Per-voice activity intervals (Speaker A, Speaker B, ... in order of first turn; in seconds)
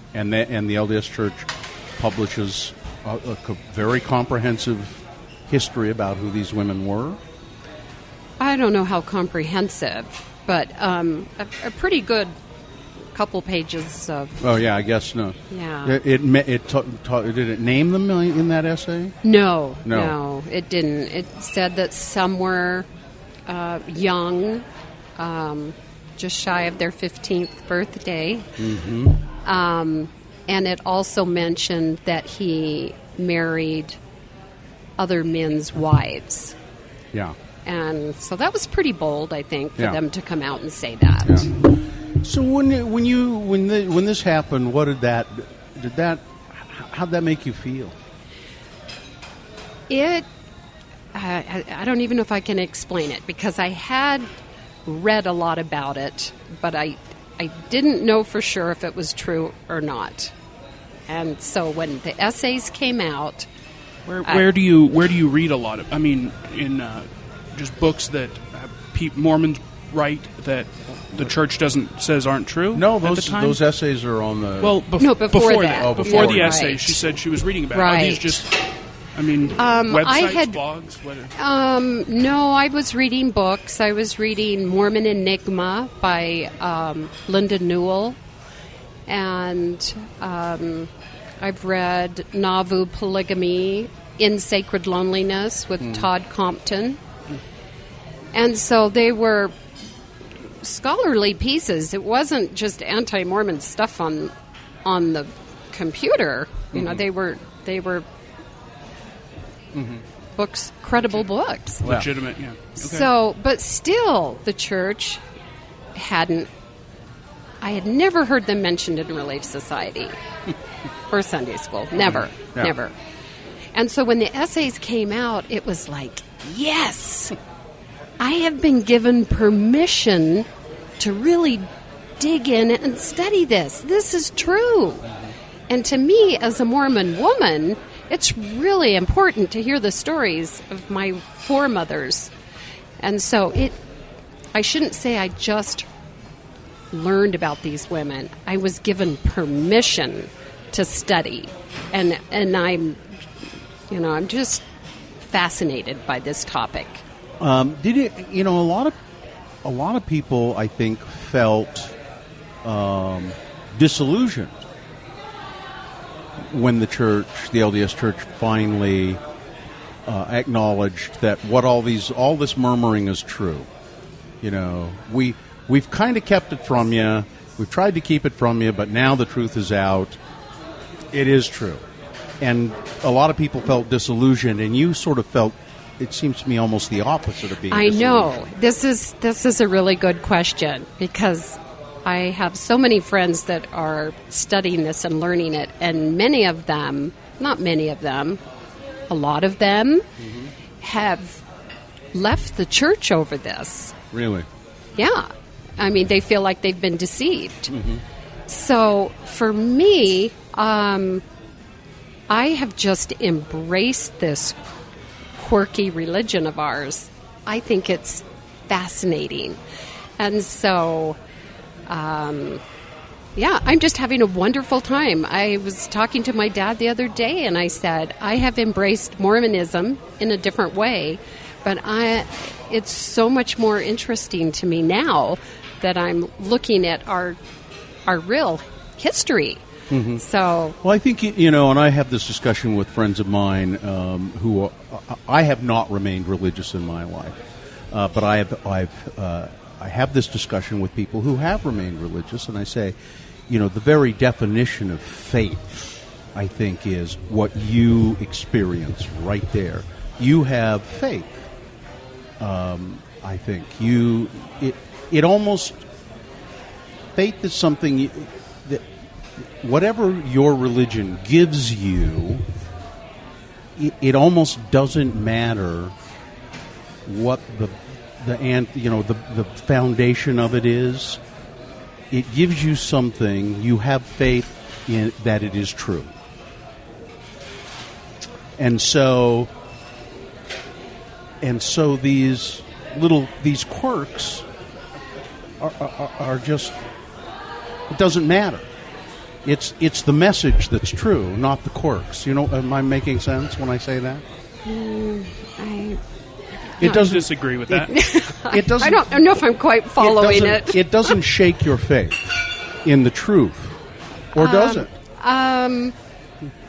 Speaker A: 0.1-7.2, 14.4-19.2, 19.9-20.1, 28.6-29.2, 41.2-48.0, 72.7-74.8, 75.5-76.7, 106.7-107.0, 109.7-110.0, 111.8-112.1, 122.0-122.7, 157.4-159.0, 159.6-161.9, 162.6-164.6, 166.4-169.2, 170.1-173.7, 174.4-180.2, 181.1-181.8, 182.4-188.4, 200.2-200.5, 204.1-204.5, 207.7-208.0, 239.9-240.2, 240.8-247.4, 247.9-252.9, 253.5-261.5, 262.4-265.8, 267.1-268.9, 269.4-272.5, 273.8-275.9, 277.1-281.2, 282.1-286.1, 288.6-289.5, 291.4-294.5, 295.6-296.8, 297.9-298.7, 299.4-304.2, 306.8-309.2, 310.0-313.8, 314.3-314.9
Speaker B: 8.4-12.3, 13.1-14.4, 15.5-16.0, 19.2-22.9, 23.5-24.7, 25.2-28.5, 29.4-34.0, 35.0-36.5, 37.6-41.5, 49.9-50.3, 51.1-54.3, 54.9-60.3, 61.1-63.5, 75.0-77.0, 77.7-78.4, 79.6-80.6, 81.4-88.2, 89.1-97.0, 98.3-99.5, 100.6-104.3, 104.8-108.0, 110.4-111.8, 112.8-115.2, 116.0-116.5, 117.6-120.2, 121.1-122.9, 123.7-127.4, 128.2-130.5, 131.0-131.7, 132.2-135.1, 135.7-142.3, 143.0-143.8, 144.5-145.9, 146.9-153.0, 153.9-154.6, 155.2-157.0, 187.7-198.4, 199.1-200.1, 200.8-201.4, 202.1-204.0, 205.0-207.8, 208.5-211.2, 212.3-214.6, 215.4-219.6, 220.2-221.2, 221.9-222.6, 223.4-237.4, 238.1-240.8, 304.6-306.0, 307.9-311.2, 314.4-315.9
Speaker C: 64.1-73.6, 74.6-78.6, 79.1-81.3, 111.8-113.1, 306.8-307.9